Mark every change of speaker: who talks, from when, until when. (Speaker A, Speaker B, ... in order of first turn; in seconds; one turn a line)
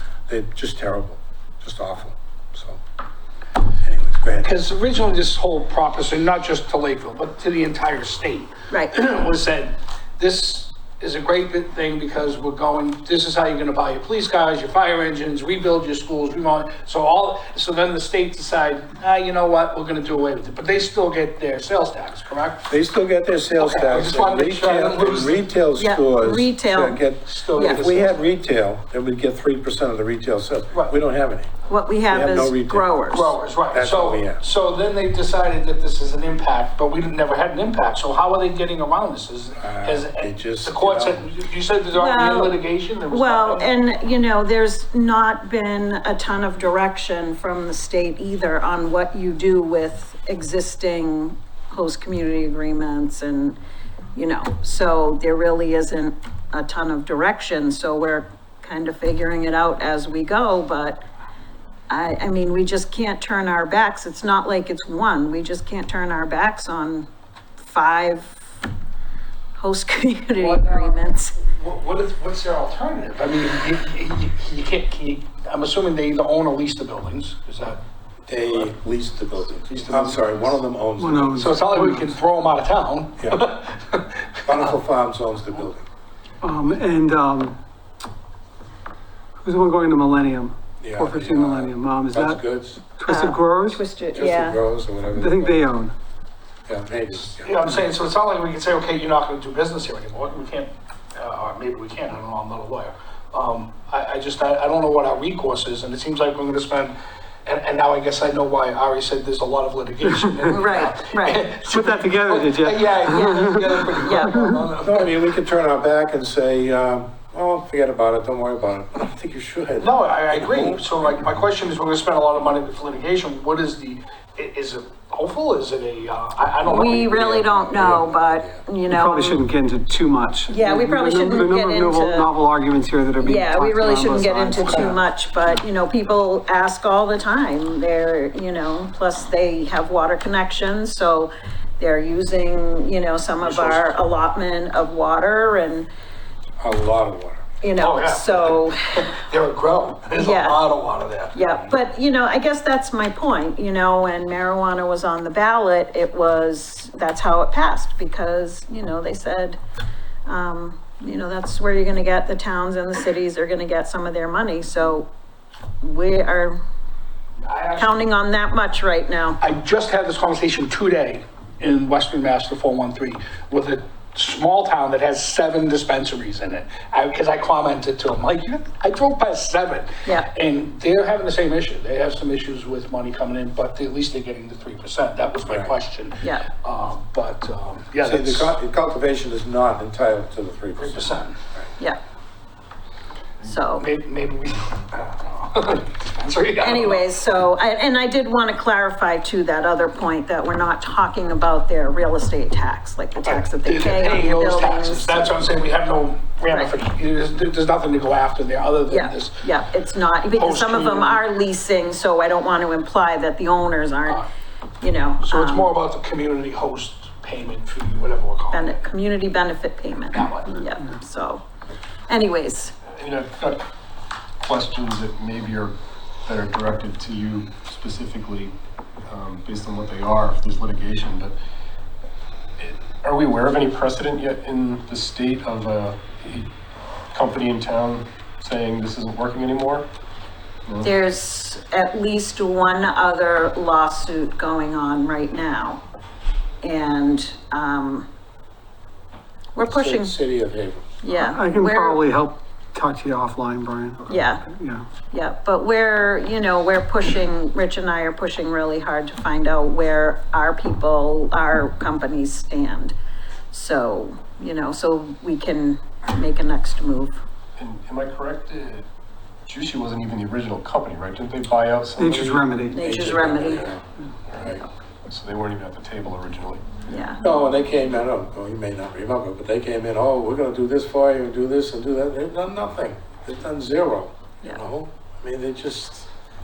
Speaker A: 0.3-2.8
Speaker A: 3.8-4.6
Speaker B: 4.4-22.7
Speaker A: 22.7-31.5
Speaker B: 23.6-25.4
Speaker C: 25.8-27.0
Speaker B: 27.3-28.2
Speaker C: 27.6-27.8
Speaker C: 31.7-33.4
Speaker A: 32.1-32.9
Speaker B: 33.1-43.8
Speaker A: 33.7-34.4
Speaker A: 39.6-41.2
Speaker C: 42.0-53.6
Speaker C: 54.1-61.0
Speaker C: 61.9-67.1
Speaker C: 67.6-68.5
Speaker C: 69.6-71.4
Speaker B: 70.4-77.8
Speaker A: 78.3-81.6
Speaker B: 79.6-80.6
Speaker D: 81.0-82.1
Speaker B: 81.4-84.7
Speaker A: 84.4-85.8
Speaker D: 86.4-87.6
Speaker D: 89.4-92.4
Speaker A: 90.8-92.8
Speaker D: 93.0-93.8
Speaker C: 93.0-94.6
Speaker A: 94.1-95.6
Speaker D: 95.1-95.9
Speaker A: 96.7-97.8
Speaker B: 97.4-106.9
Speaker B: 107.4-115.2
Speaker C: 110.5-111.5
Speaker D: 111.6-114.6
Speaker C: 114.0-114.4
Speaker A: 114.8-120.9
Speaker B: 119.8-127.4
Speaker A: 126.6-128.6
Speaker C: 126.7-129.4
Speaker D: 128.9-135.0
Speaker C: 130.5-132.3
Speaker C: 133.2-145.9
Speaker B: 143.4-143.8
Speaker A: 146.6-147.4
Speaker C: 147.6-149.1
Speaker B: 147.8-151.4
Speaker C: 150.2-150.7
Speaker C: 151.3-159.6
Speaker C: 160.2-165.1
Speaker C: 165.8-166.6
Speaker B: 167.4-168.1
Speaker C: 167.8-169.4
Speaker B: 169.4-188.5
Speaker C: 180.1-180.3
Speaker A: 185.5-185.7
Speaker C: 186.2-186.5
Speaker A: 188.0-191.6
Speaker B: 190.8-191.3
Speaker C: 193.4-193.9
Speaker B: 193.8-197.0
Speaker C: 196.6-205.5
Speaker B: 203.2-209.4
Speaker C: 206.5-206.7
Speaker C: 208.9-214.2
Speaker B: 210.3-211.2
Speaker C: 214.8-215.7
Speaker B: 215.2-218.8
Speaker C: 218.5-221.4
Speaker B: 220.2-220.6
Speaker C: 222.1-222.7
Speaker E: 222.9-223.7
Speaker E: 224.4-228.6
Speaker E: 229.1-231.4
Speaker E: 232.6-236.5
Speaker E: 237.1-239.9
Speaker E: 240.7-240.9
Speaker C: 240.8-245.8
Speaker C: 246.6-248.1
Speaker C: 249.6-250.2
Speaker A: 249.6-250.9
Speaker C: 251.0-252.0
Speaker D: 251.1-254.8
Speaker C: 254.1-254.4
Speaker C: 255.1-262.9
Speaker C: 263.5-267.2
Speaker E: 267.6-268.9
Speaker E: 269.5-273.7
Speaker D: 272.0-273.2
Speaker C: 272.7-273.8
Speaker A: 273.3-273.8
Speaker E: 274.3-274.5
Speaker A: 274.4-274.6
Speaker E: 275.1-276.7
Speaker C: 276.9-277.2
Speaker A: 277.2-286.1